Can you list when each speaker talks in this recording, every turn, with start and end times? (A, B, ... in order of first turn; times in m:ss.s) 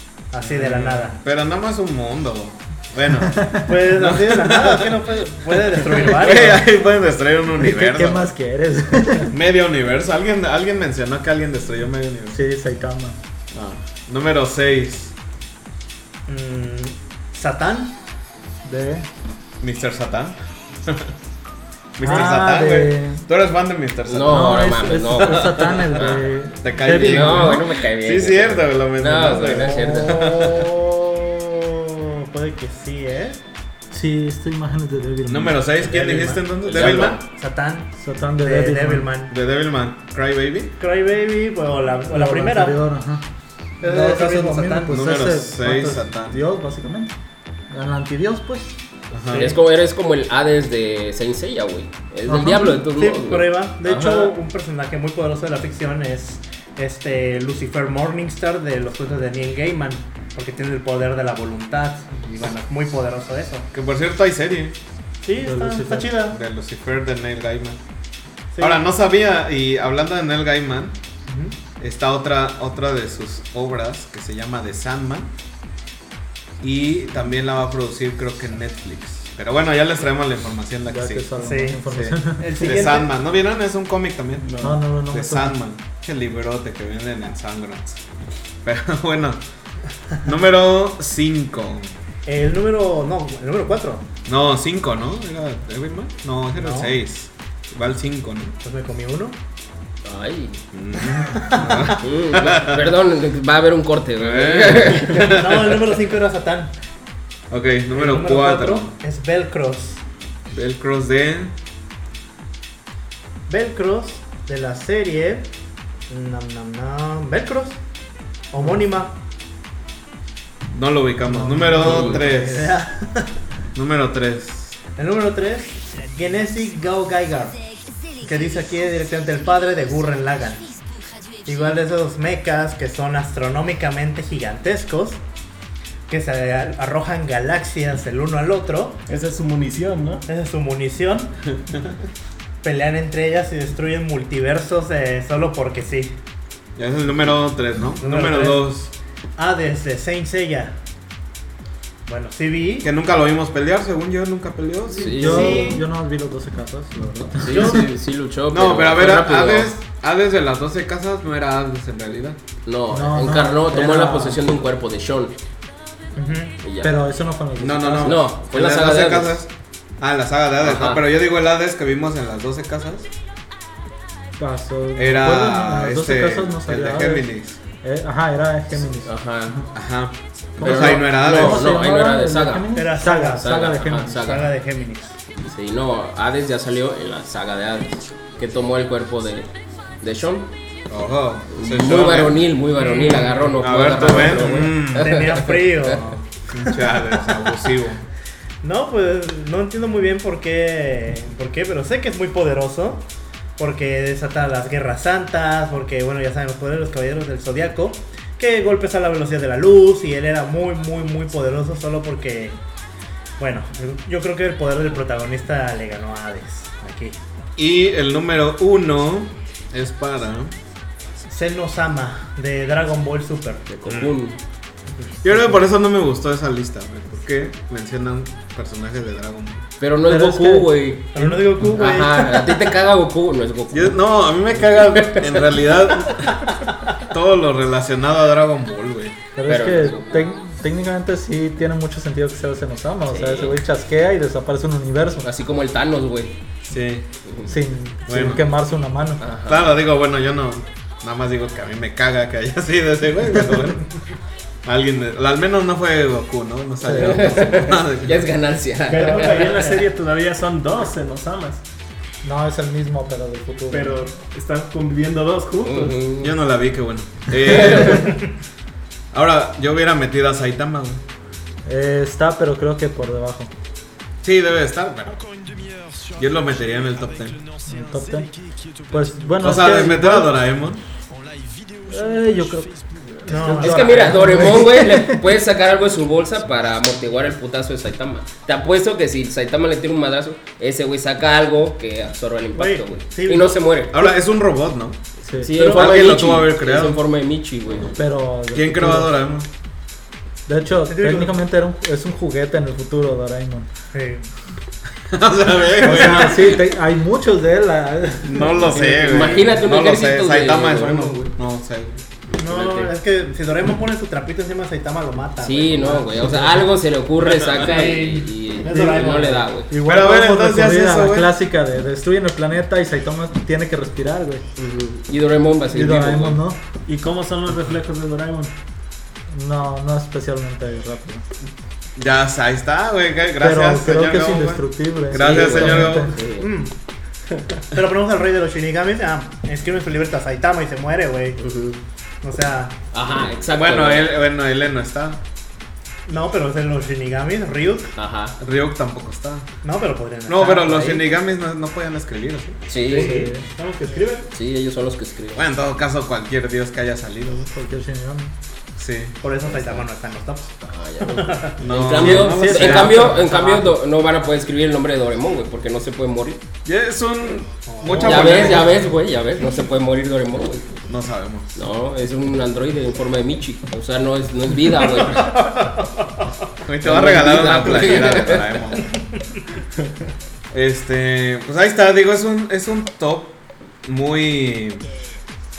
0:00.3-0:01.2 A
0:00.4-0:08.3 B
0:03.4-0:03.7 C
0:03.6-0:06.6 A
0:07.6-0:09.3 C
0:09.2-0:12.4 B
0:12.3-0:13.2 C
0:13.5-0:15.2 B
0:16.3-0:18.0 A
0:18.6-0:19.1 C
0:19.6-0:21.1 B
0:22.0-0:30.8 B
0:22.0-0:23.3 C
0:24.1-0:26.2 D
0:24.2-0:27.6 C
0:26.9-0:30.5 D
0:29.8-0:33.4 A
0:33.9-0:35.6 C
0:35.3-0:37.2 B
0:35.8-0:39.3 A
0:36.6-0:37.2 D
0:38.0-0:39.1 C
0:39.3-0:40.8 B
0:40.8-0:42.8 A
0:42.1-0:43.2 C
0:43.8-0:45.0 A
0:43.8-0:47.2 C
0:44.9-0:46.4 B
0:47.7-0:48.7 C
0:49.1-0:49.6 B
0:49.3-0:54.3 D
0:52.3-0:52.8 C
0:52.9-1:03.7 A
1:03.7-1:04.8 B
1:05.2-1:06.4 A
1:05.4-1:06.1 C
1:06.3-1:07.8 B
1:08.5-1:08.8 A
1:08.6-1:11.0 B
1:11.3-1:11.6 A
1:11.8-1:15.3 B
1:16.6-1:28.1 B
1:20.9-1:22.6 C
1:21.4-1:21.8 A
1:22.4-1:23.1 A
1:24.5-1:24.8 E
1:24.6-1:25.6 C
1:28.6-1:29.4 B
1:30.2-1:32.0 B
1:32.3-1:34.1 A
1:34.3-1:38.6 B
1:36.6-1:37.0 A
1:38.6-1:39.4 A
1:40.0-1:40.6 D
1:40.7-1:43.0 B
1:41.1-1:42.0 A
1:41.9-1:45.5 D
1:44.2-1:45.8 B
1:45.2-1:46.7 A
1:47.5-1:48.9 B
1:48.0-1:50.0 A
1:50.5-1:51.6 B
1:53.5-1:55.5 A
1:56.1-1:57.8 A
1:58.5-1:59.2 A
2:00.7-2:02.8 B
2:01.4-2:03.3 A
2:01.8-2:02.2 D
2:03.8-2:04.8 B
2:05.0-2:07.6 A
2:08.2-2:10.7 A
2:11.5-2:15.2 A
2:16.1-2:19.0 A
2:19.1-2:20.3 E
2:20.3-2:21.4 A
2:22.6-2:26.2 A
2:26.8-2:28.9 B
2:28.0-2:28.6 A
2:29.4-2:30.8 A
2:32.1-2:32.9 A
2:32.8-2:35.4 B
2:35.0-2:35.8 D
2:35.1-2:37.8 C
2:35.2-2:35.8 A
2:37.4-2:39.7 D
2:37.5-2:37.9 A
2:38.5-2:42.4 B
2:42.7-2:45.4 D
2:42.9-2:44.4 C
2:46.2-2:46.6 A
2:46.6-2:47.0 D
2:46.8-2:48.2 C
2:47.6-2:53.1 B
2:48.0-2:49.4 D
2:50.6-2:51.0 D
2:54.4-2:57.3 C
2:55.0-2:57.6 B
2:57.8-2:59.6 C
2:59.0-2:59.6 D
2:59.7-3:01.7 B
3:00.6-3:04.3 C
3:00.6-3:02.8 D
3:02.8-3:05.2 A
3:03.4-3:04.5 D
3:05.4-3:09.5 D
3:10.0-3:10.5 D
3:10.9-3:12.5 B
3:11.5-3:16.0 D
3:12.8-3:13.6 A
3:13.6-3:15.3 B
3:14.6-3:17.0 A
3:16.5-3:18.0 B
3:18.6-3:23.0 A
3:23.6-3:32.6 A
3:33.4-3:37.2 A
3:37.6-3:40.6 B
3:41.3-3:44.0 A
3:43.7-3:44.4 D
3:45.2-3:49.7 B
3:49.8-3:54.1 D
3:50.0-3:51.5 C
3:51.1-3:52.8 A
3:53.7-3:56.5 B
3:54.6-3:56.1 D
3:56.3-3:56.9 A
3:57.1-3:59.2 B
3:59.4-4:05.3 C
3:59.5-4:00.3 D
4:03.1-4:03.6 D
4:05.2-4:06.4 D
4:06.7-4:07.1 B
4:07.4-4:09.2 C
4:08.1-4:08.5 B
4:09.2-4:09.7 D
4:09.5-4:14.0 B
4:14.6-4:18.3 B
4:16.8-4:17.2 C
4:16.8-4:19.7 D
4:18.9-4:21.6 E
4:22.2-4:24.1 C
4:23.7-4:26.0 E
4:25.6-4:26.4 D
4:26.2-4:28.2 B
4:27.5-4:28.1 D
4:29.1-4:31.0 B
4:31.6-4:33.5 C
4:34.2-4:35.2 B
4:36.2-4:37.4 B
4:37.6-4:38.3 C
4:38.9-4:40.3 C
4:39.4-4:40.8 B
4:41.9-4:45.3 C
4:43.3-4:44.4 A
4:43.6-4:54.0 D
4:52.5-4:54.0 A
4:53.9-4:55.0 B
4:55.2-4:55.5 C
4:55.4-4:58.0 D
4:55.6-4:56.0 A
4:55.6-4:57.0 B
4:58.0-4:59.1 C
4:58.5-4:59.5 B
5:00.5-5:03.7 C
5:00.9-5:01.4 A
5:03.9-5:04.3 A
5:05.1-5:06.7 B
5:05.8-5:09.0 C
5:08.2-5:12.0 B
5:08.8-5:11.3 D
5:09.1-5:09.5 A
5:12.4-5:16.6 A
5:12.4-5:12.9 D
5:15.4-5:19.7 D
5:17.5-5:19.4 A
5:18.6-5:19.3 E
5:19.7-5:24.4 C
5:19.8-5:21.4 B
5:24.6-5:26.4 D
5:25.7-5:26.6 C
5:26.8-5:28.5 E
5:29.3-5:31.2 C
5:32.0-5:36.2 B
5:33.4-5:36.2 C
5:35.1-5:36.5 D
5:36.3-5:36.7 A
5:37.7-5:41.4 A
5:41.4-5:41.8 D
5:42.2-5:42.8 A
5:42.9-5:44.2 D
5:43.5-5:45.2 B
5:46.1-5:47.9 A
5:48.0-5:48.4 D
5:48.4-5:49.5 B
5:49.6-5:51.2 A
5:50.3-5:52.7 B
5:52.7-5:53.3 D
5:52.8-5:54.3 E
5:53.0-5:53.4 C
5:54.3-5:55.4 D
5:55.4-5:57.5 B
5:57.5-5:58.3 C
5:58.8-5:59.2 B
5:59.2-6:00.5 A
5:59.5-5:59.8 D
6:00.6-6:06.4 D
6:01.1-6:01.6 A
6:01.6-6:03.1 B
6:01.9-6:03.7 C
6:06.6-6:08.9 B
6:07.7-6:08.7 A
6:07.9-6:10.7 D
6:10.8-6:11.6 B
6:11.6-6:15.4 D
6:15.0-6:16.3 A
6:16.6-6:19.0 B
6:16.8-6:18.6 D
6:20.5-6:24.9 B